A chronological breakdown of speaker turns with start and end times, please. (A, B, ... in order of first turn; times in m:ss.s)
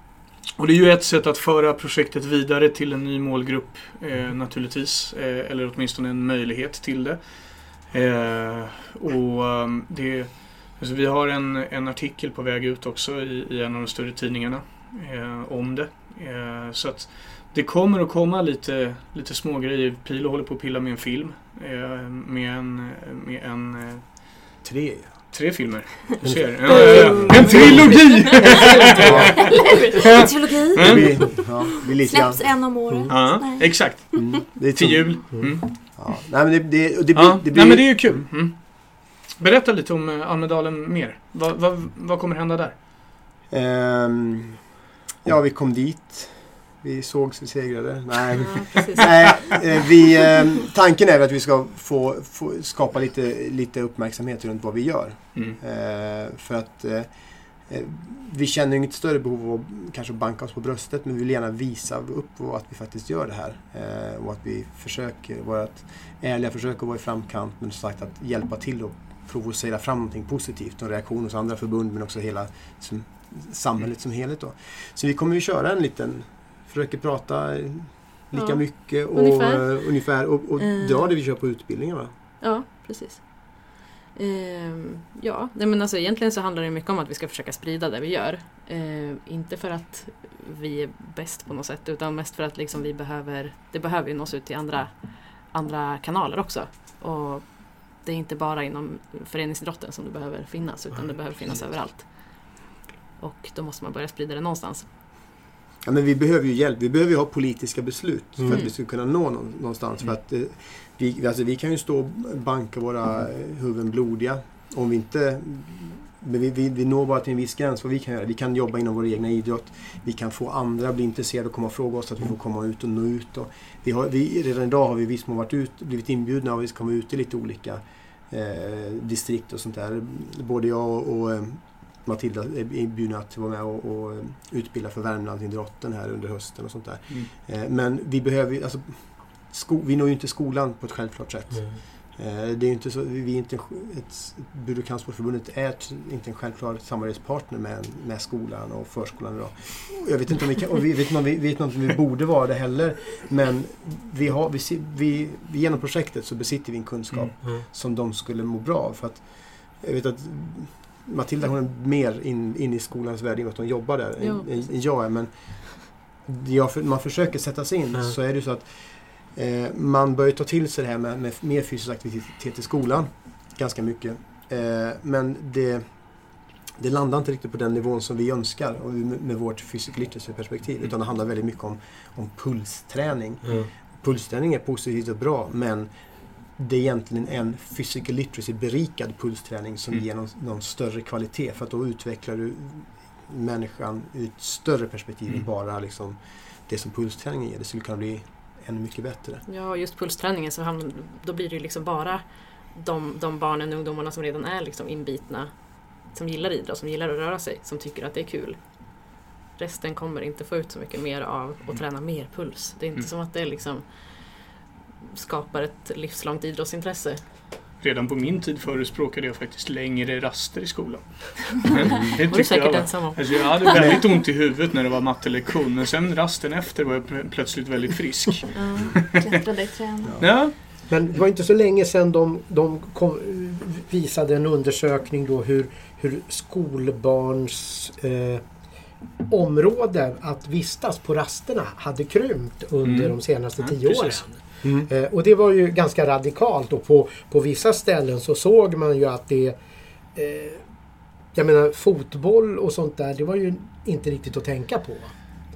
0:00.6-0:24.2 A
0:24.6-0:25.3 B
0:25.3-0:31.1 A
0:26.2-0:29.5 B
0:26.6-0:34.4 C
0:30.7-0:33.2 B
0:33.1-0:35.7 A
0:34.1-0:35.3 B
0:35.9-0:38.2 B
0:37.1-0:42.7 A
0:43.5-0:44.6 B
0:45.2-0:57.1 B
0:48.3-0:49.3 D
0:57.6-1:22.1 B
1:18.3-1:19.8 D
1:20.6-1:21.1 D
1:22.4-1:42.1 D
1:43.2-1:44.9 D
1:45.8-2:39.2 B
1:48.5-1:48.7 D
2:39.8-2:45.3 B
2:44.2-2:44.6 D
2:45.9-2:55.8 B
2:56.8-3:05.9 B
3:06.6-3:19.4 B
3:19.4-3:22.2 D
3:22.7-3:25.5 D
3:26.1-3:28.6 D
3:29.6-3:34.3 D
3:35.1-3:37.2 D
3:37.8-3:49.2 A
3:42.2-3:43.8 D
3:48.5-3:48.9 D
3:48.8-3:50.2 C
3:50.0-3:50.3 B
3:50.2-3:50.5 A
3:50.9-3:58.4 E
3:59.3-4:09.6 E
4:02.8-4:04.2 A
4:04.6-4:04.9 B
4:10.2-4:10.6 E
4:11.3-4:15.1 E